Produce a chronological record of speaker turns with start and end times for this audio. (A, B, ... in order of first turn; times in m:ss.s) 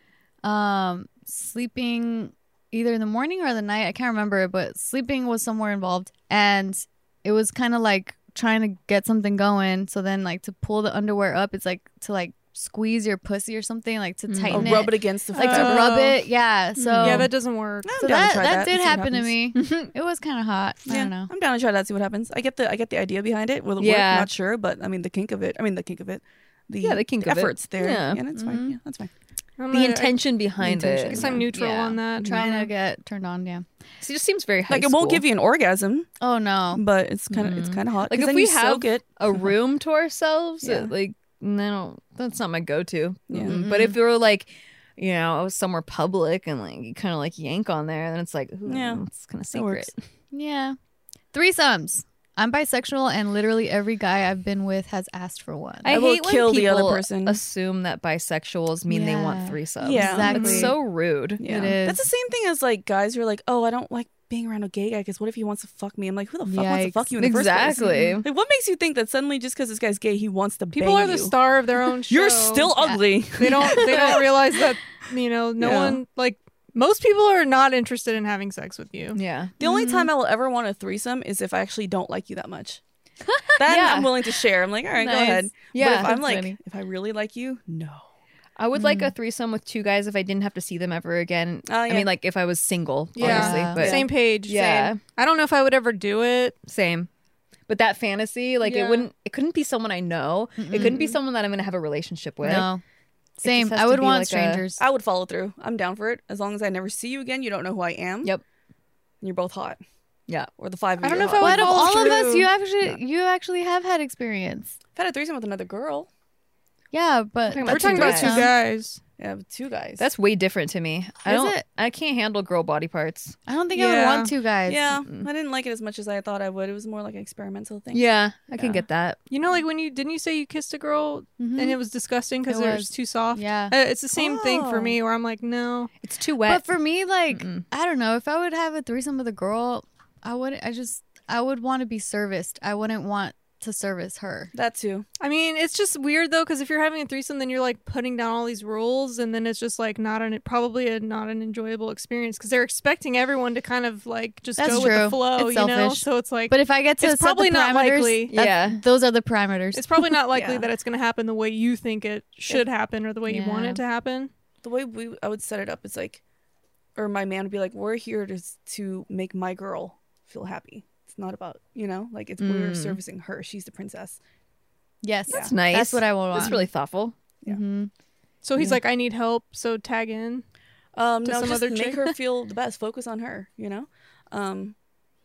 0:00.4-0:17.3 A
0:14.3-0:14.9 B
0:14.5-0:16.0 C
0:15.3-0:16.2 D
0:16.8-0:17.3 B
0:17.0-0:17.9 D
0:17.8-0:19.3 C
0:18.0-0:21.3 A
0:19.5-0:19.9 B
0:20.8-0:29.1 C
0:23.8-0:24.3 B
0:26.8-0:28.2 B
0:28.3-0:28.8 A
0:29.6-0:32.6 D
0:29.7-0:32.0 B
0:31.2-0:31.4 C
0:32.2-0:32.5 C
0:32.2-0:33.6 A
0:34.0-0:35.2 B
0:34.7-0:36.1 C
0:36.2-0:36.8 A
0:36.7-0:39.5 C
0:37.3-0:50.0 B
0:40.6-0:40.9 C
0:43.3-0:43.6 C
0:43.4-0:44.0 A
0:48.6-0:49.9 C
0:50.3-0:50.8 A
0:51.3-0:55.9 A
0:55.8-1:01.5 B
0:55.9-0:57.4 C
0:58.9-1:00.8 A
0:59.8-1:00.7 C
1:00.3-1:00.7 D
1:01.4-1:11.3 C
1:01.4-1:02.1 A
1:06.4-1:07.1 A
1:07.2-1:08.2 B
1:07.8-1:08.2 A
1:10.7-1:12.7 D
1:12.1-1:14.5 C
1:13.4-1:19.2 D
1:13.8-1:14.2 B
1:15.6-1:16.0 C
1:19.1-1:19.5 B
1:19.6-1:20.1 A
1:19.6-1:22.8 C
1:23.6-1:28.0 C
1:23.6-1:24.1 B
1:25.0-1:26.6 A
1:25.7-1:26.2 B
1:28.6-1:35.0 B
1:28.7-1:29.1 A
1:31.6-1:32.1 C
1:33.1-1:36.6 D
1:33.2-1:33.9 A
1:33.8-1:34.0 C
1:36.7-1:37.1 B
1:37.7-1:42.7 B
1:38.6-1:39.1 C
1:40.6-1:41.2 A
1:42.4-1:42.8 A
1:43.4-1:44.8 A
1:43.4-1:44.6 B
1:44.8-1:48.3 C
1:49.2-1:49.8 C
1:50.6-1:52.5 C
1:51.0-1:52.5 D
1:51.4-1:54.7 A
1:55.0-1:56.1 C
1:56.9-1:58.5 A
1:57.5-1:58.5 B
1:57.6-1:59.0 D
1:59.2-2:00.0 C
2:00.0-2:03.4 B
2:01.2-2:01.6 A
2:03.5-2:05.0 A
2:03.7-2:08.8 C
2:07.9-2:09.2 B
2:09.3-2:15.9 D
2:11.4-2:11.8 A
2:12.5-2:13.7 A
2:14.1-2:15.0 C
2:16.0-2:16.6 B
2:16.4-2:24.5 A
2:17.3-2:17.6 B
2:24.5-2:25.0 C
2:25.2-2:38.3 D
2:34.6-2:40.0 A
2:38.3-2:38.8 B
2:39.7-2:44.3 D
2:40.3-2:40.7 C
2:43.3-2:43.8 A
2:44.6-2:46.2 C
2:47.0-2:54.2 C
2:52.4-2:53.0 B
2:55.0-2:56.6 A
2:55.3-2:55.5 C
2:55.3-2:57.2 B
2:56.3-2:56.6 C
2:57.4-2:57.9 A
2:58.4-3:00.4 D
3:00.9-3:04.8 C
3:01.2-3:02.1 D